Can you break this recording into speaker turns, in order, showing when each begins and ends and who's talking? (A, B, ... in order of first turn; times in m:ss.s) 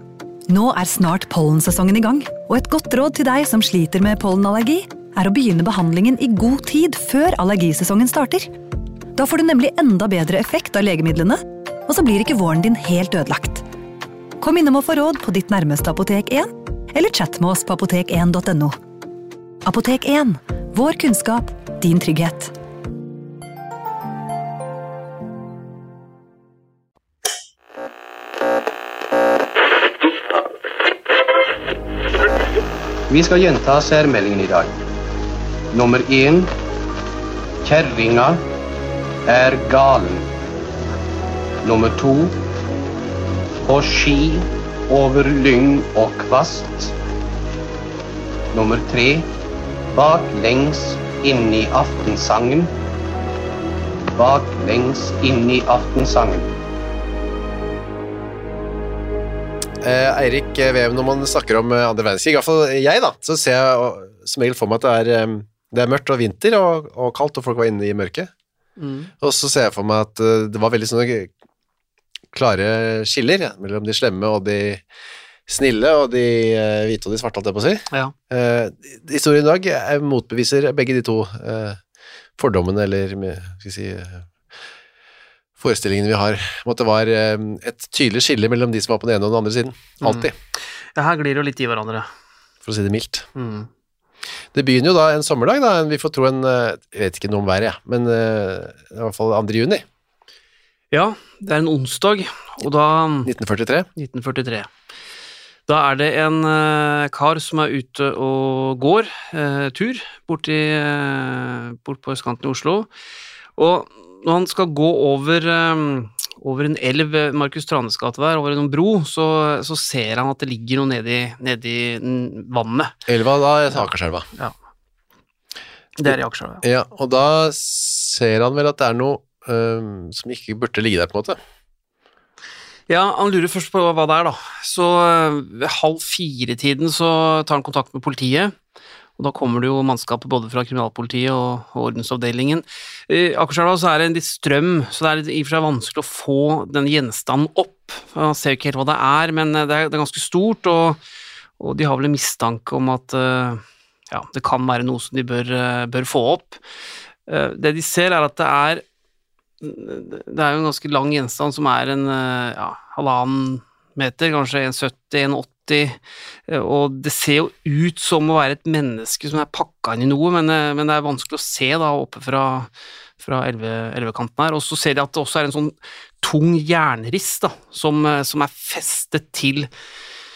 0:00.5-0:08.5 A
0:09.2-0:13.6 A
0:14.4-0:18.8 A
0:19.6-0:22.5 A
0:33.1-0:34.7 B
0:35.7-0:36.5 B
0:37.6-0:38.4 B
0:39.3-0:40.3 B
0:41.6-0:42.3 B
0:43.7-0:47.0 B
0:48.5-0:49.3 B
0:49.9-0:52.7 B
0:54.2-0:56.5 B
0:59.8-1:08.3 C
1:08.8-1:09.1 D
1:09.2-1:11.3 C
1:12.3-1:14.8 C
1:15.5-1:21.8 C
1:22.4-1:24.3 C
1:25.6-1:30.3 C
1:30.0-1:30.3 D
1:31.0-1:32.1 D
1:32.6-1:33.3 C
1:33.4-1:33.7 D
1:34.5-1:39.8 C
1:40.9-1:43.3 D
1:43.2-1:43.9 C
1:44.0-1:44.7 D
1:45.7-1:52.9 D
1:53.6-2:03.0 D
2:03.1-2:04.3 C
2:06.0-2:06.6 D
2:06.1-2:11.4 C
2:12.9-2:18.5 D
2:19.2-2:31.0 D
2:31.6-2:36.6 D
2:37.3-2:38.8 D
2:39.6-2:59.7 D